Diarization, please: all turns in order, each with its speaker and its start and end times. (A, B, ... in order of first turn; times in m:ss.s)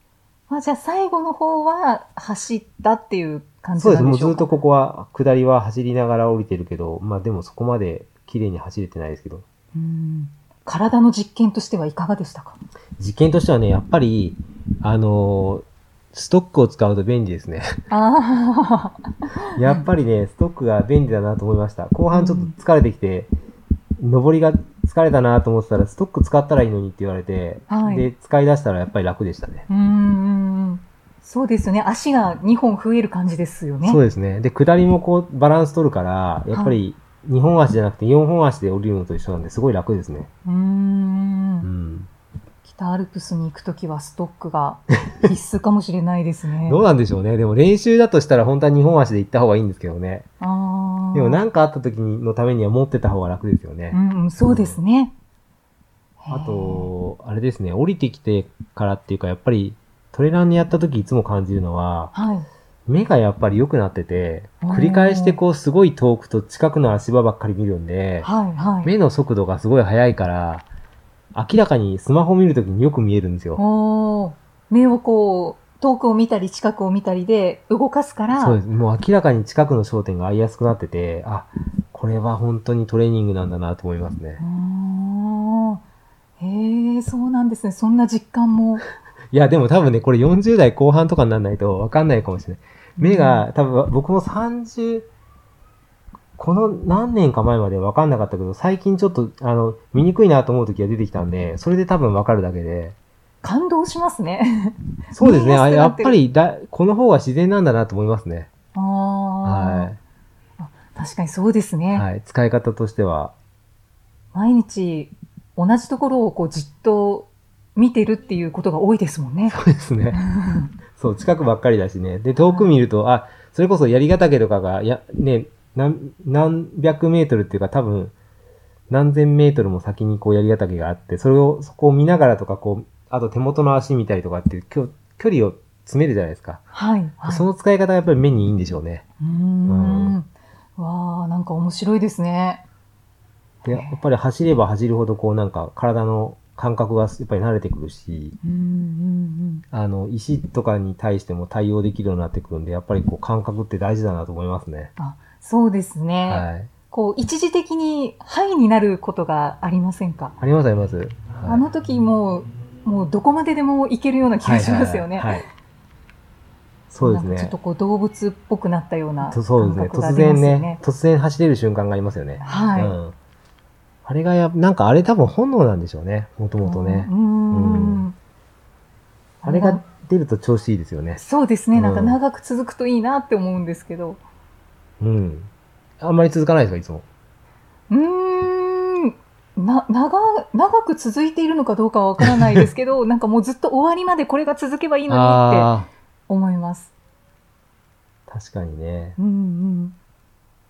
0:00.5-0:04.5 A
0:03.8-0:09.4 B
0:09.7-0:12.6 A
0:13.0-0:17.7 B
0:17.9-0:19.1 A
0:19.6-0:23.3 B
0:22.1-0:22.5 A
0:24.0-0:29.7 B
0:27.7-0:28.1 A
0:29.7-0:34.0 A
0:33.8-0:40.3 B
0:36.5-0:36.8 A
0:40.4-0:41.7 A
0:41.6-0:42.1 B
0:42.6-0:46.8 A
0:46.6-0:50.3 B
0:50.4-0:51.4 A
0:51.1-0:54.8 B
0:53.9-0:55.1 A
0:56.2-0:56.9 A
0:56.3-1:02.1 B
1:02.1-1:02.5 A
1:02.9-1:08.3 B
1:04.6-1:05.4 A
1:08.2-1:08.9 A
1:08.8-1:10.6 B
1:11.3-1:13.6 B
1:13.6-1:18.6 A
1:18.4-1:24.4 B
1:24.4-1:25.8 A
1:26.4-1:28.8 A
1:29.3-1:35.1 B
1:33.0-1:33.5 A
1:36.4-1:43.0 B
1:43.4-1:46.2 A
1:45.1-1:48.5 B
1:48.7-1:49.9 A
1:49.4-1:50.0 B
1:50.6-1:52.1 A
1:51.9-1:53.3 B
1:54.3-1:59.6 A
1:59.5-2:00.2 B
2:00.1-2:00.7 A
2:01.0-2:08.1 B
2:02.3-2:02.7 A
2:08.9-2:16.6 B
2:16.7-2:17.4 A
2:17.2-2:19.0 B
2:19.2-2:22.6 A
2:19.6-2:20.2 B
2:23.6-2:28.4 B
2:23.6-2:24.0 A
2:28.4-2:29.6 A
2:29.7-2:34.9 B
2:35.0-2:40.4 A
2:36.3-2:36.7 B
2:40.4-2:41.6 B
2:41.4-2:45.4 A
2:44.4-2:45.4 B
2:46.9-2:47.5 B
2:47.0-2:50.8 A
2:49.2-2:53.1 B
2:52.4-2:53.0 A
2:54.0-2:58.1 B
2:56.6-2:58.2 A
2:59.4-2:59.8 A
2:59.4-3:01.2 B
3:01.2-3:04.2 A
3:01.7-3:02.2 B
3:05.0-3:07.0 B
3:07.9-3:15.7 A
3:12.2-3:12.7 B
3:15.1-3:15.9 B
3:16.3-3:16.9 A
3:18.3-3:19.2 B
3:19.2-3:20.0 A